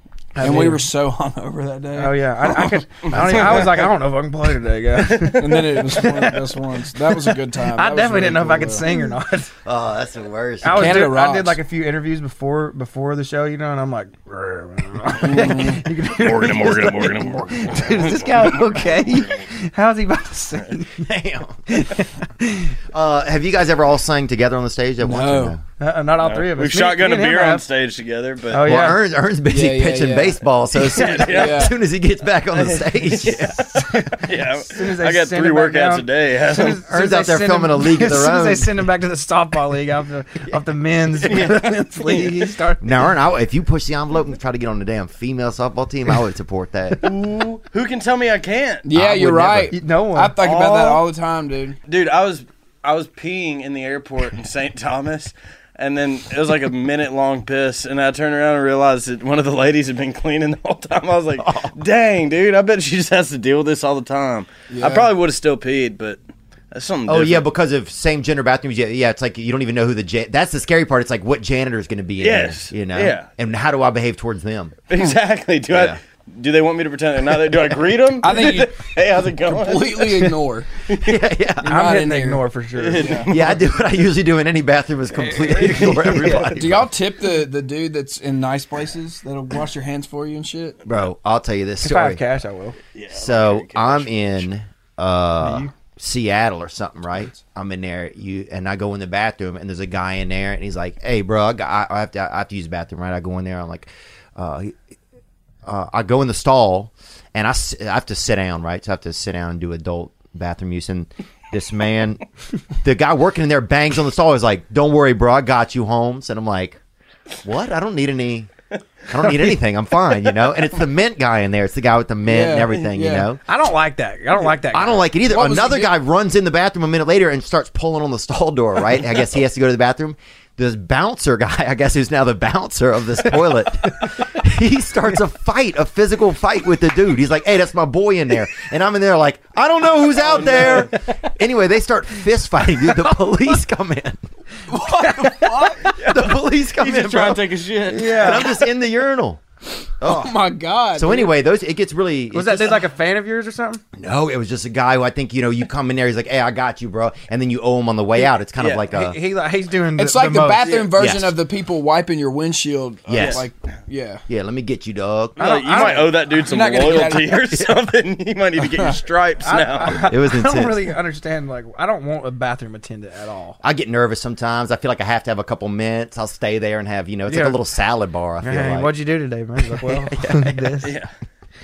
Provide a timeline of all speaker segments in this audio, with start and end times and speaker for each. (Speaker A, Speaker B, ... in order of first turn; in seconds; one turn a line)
Speaker A: 0.3-0.9
Speaker B: 0.4-2.3
Speaker A: 2.0-6.4
Speaker C: 2.6-3.9
Speaker C: 5.0-5.4
Speaker B: 5.4-8.9
Speaker A: 7.1-9.5
Speaker D: 9.7-11.1
Speaker A: 10.6-20.9
Speaker B: 10.6-11.6
Speaker B: 15.3-15.8
Speaker C: 16.0-19.4
Speaker D: 21.0-21.6
Speaker A: 21.7-22.8
Speaker D: 22.9-25.6
Speaker B: 25.0-25.6
Speaker A: 25.8-27.6
Speaker C: 26.2-28.7
Speaker A: 28.5-29.0
Speaker D: 28.6-33.6
Speaker B: 29.4-30.4
Speaker C: 30.8-31.7
Speaker B: 31.3-31.8
Speaker C: 32.5-36.8
Speaker A: 33.7-43.0
Speaker D: 36.8-38.8
Speaker C: 41.2-42.3
Speaker D: 42.8-47.0
Speaker C: 47.1-48.9
Speaker B: 48.9-51.8
Speaker D: 48.9-49.8
Speaker A: 49.7-51.0
Speaker C: 51.9-66.2
Speaker D: 61.4-61.7
Speaker B: 64.7-65.1
Speaker C: 66.7-67.5
Speaker D: 67.1-74.9
Speaker C: 72.2-73.3
Speaker C: 74.9-80.3
Speaker D: 75.7-76.0
Speaker B: 78.2-80.7
Speaker C: 80.9-81.2
Speaker D: 81.0-81.7
Speaker B: 81.6-83.3
Speaker A: 81.7-83.2
Speaker C: 82.8-84.0
Speaker D: 83.2-86.9
Speaker A: 85.1-86.6
Speaker B: 86.1-90.8
Speaker D: 90.8-92.2
Speaker A: 91.8-92.8
Speaker C: 92.9-94.5
Speaker D: 93.1-104.8
Speaker A: 95.4-95.7
Speaker D: 105.7-112.2
Speaker D: 112.8-116.8
Speaker D: 117.4-118.5
Speaker D: 119.1-123.4
Speaker B: 122.2-123.3
Speaker A: 123.5-125.1
Speaker D: 124.7-144.2
Speaker B: 125.2-126.0
Speaker C: 140.1-141.0
Speaker B: 144.7-145.8
Speaker A: 144.7-145.7
Speaker C: 145.8-148.4
Speaker D: 145.8-149.4
Speaker A: 147.9-148.5
Speaker D: 150.0-150.3
Speaker B: 150.0-151.3
Speaker D: 150.9-152.9
Speaker A: 152.3-153.8
Speaker D: 153.9-159.2
Speaker C: 158.6-158.8
Speaker A: 158.9-160.9
Speaker B: 160.0-164.2
Speaker C: 160.7-160.9
Speaker D: 160.9-161.4
Speaker D: 163.1-163.5
Speaker C: 163.1-163.4
Speaker D: 164.3-166.1
Speaker C: 165.4-170.1
Speaker A: 165.4-166.2
Speaker B: 165.8-167.5
Speaker A: 166.8-167.1
Speaker D: 167.4-167.7
Speaker A: 169.4-173.6
Speaker D: 169.9-170.9
Speaker D: 173.6-179.0
Speaker A: 177.3-177.6
Speaker A: 178.4-180.9
Speaker D: 179.6-180.9
Speaker C: 180.8-181.1